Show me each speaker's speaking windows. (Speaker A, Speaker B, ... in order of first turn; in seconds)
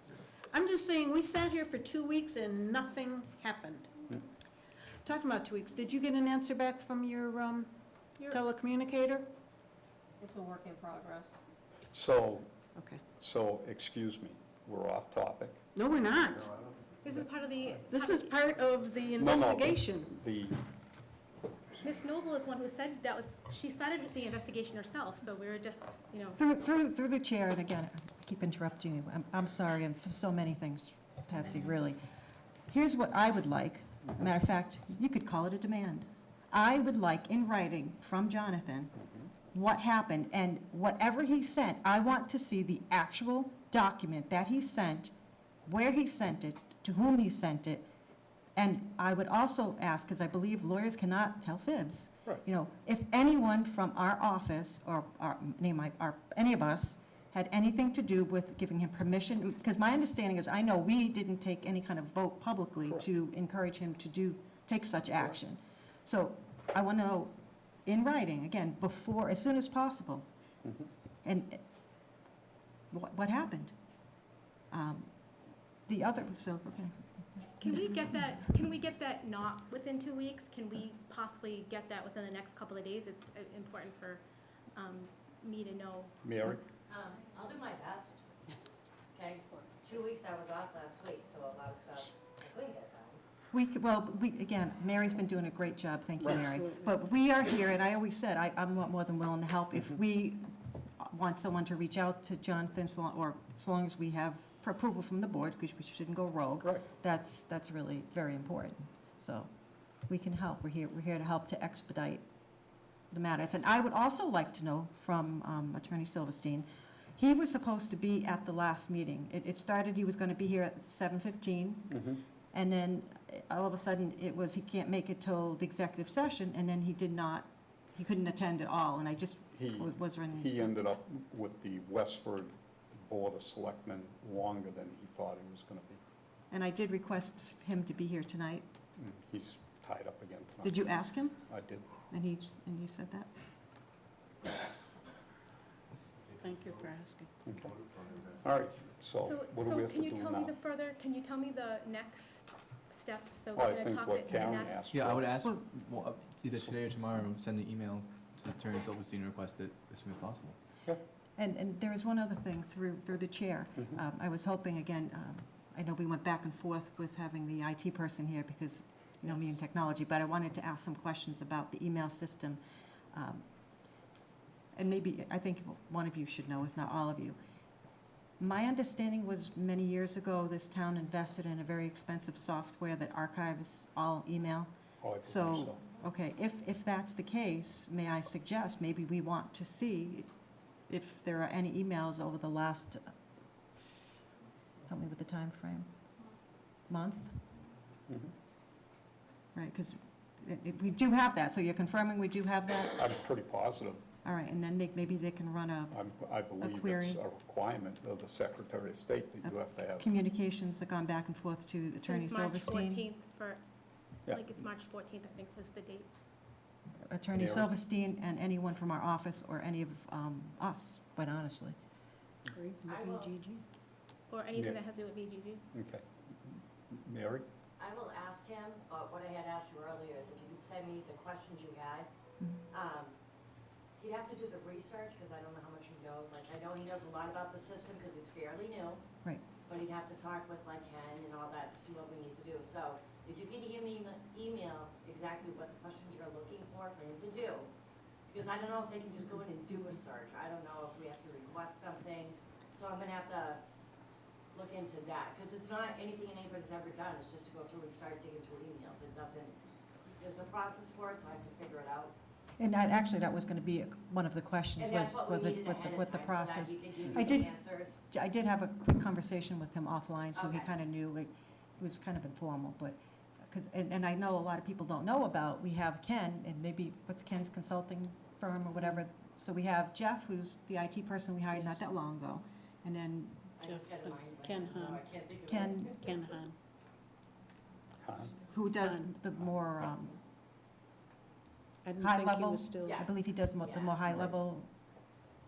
Speaker A: 0.5-3.9, 5.0-7.7, 8.3-9.3, 12.8-13.0, 15.7-16.6, 17.8-20.1, 146.4-147.3, 222.5-223.6, 281.5-281.9, 283.6-285.0, 286.0-286.6, 288.8-289.1, 291.9-293.0
Speaker B: 11.9-12.5, 13.2-15.6, 19.1-20.6, 86.2-86.6, 121.9-122.2, 129.6-136.0, 139.0-140.8, 141.5-141.9, 148.4-150.6, 153.5-155.3, 185.0-185.8, 202.9-204.0, 205.9-210.1, 217.3-217.7, 225.7-227.4, 288.0-288.4
Speaker C: 17.0-18.2, 21.8-26.4, 77.6-86.1, 86.9-88.2, 89.9-93.2, 149.2-155.0, 212.0-213.6, 214.3-216.1, 224.3-225.7, 227.8-232.0, 232.8-233.1, 234.0-239.0, 239.7-247.4, 252.8-253.2, 254.9-257.3, 260.3-262.1, 267.4-267.9, 284.1-285.4
Speaker D: 26.4-32.0, 32.7-38.9, 39.5-45.1, 45.7-47.8, 48.5-67.3, 67.9-70.2, 71.2-71.6, 72.9-73.7, 74.7-75.1, 75.9-78.5, 93.5-109.5, 110.1-112.2, 113.1-116.7, 117.2-122.0, 122.5-130.6, 136.5-138.7, 140.6-141.4, 142.1-143.3, 161.4-172.6, 173.1-173.4, 174.7-177.3, 178.4-184.7, 185.2-190.3, 190.9-193.1, 194.9-195.9, 196.9-197.3, 199.5-203.1, 204.2-206.0, 206.6-207.2, 209.4-213.0, 217.1-221.8, 262.6-283.5, 285.5-286.0, 288.5-290.2, 292.0-294.7
Speaker E: 87.0-88.1, 89.3-90.1, 91.0-92.4, 222.8-223.3, 228.1-229.6, 230.2-231.9, 234.2-239.0, 239.7-247.7, 248.3-253.6, 254.5-259.5, 260.2-262.1, 264.8-267.9, 283.6-285.9
Speaker F: 154.9-160.6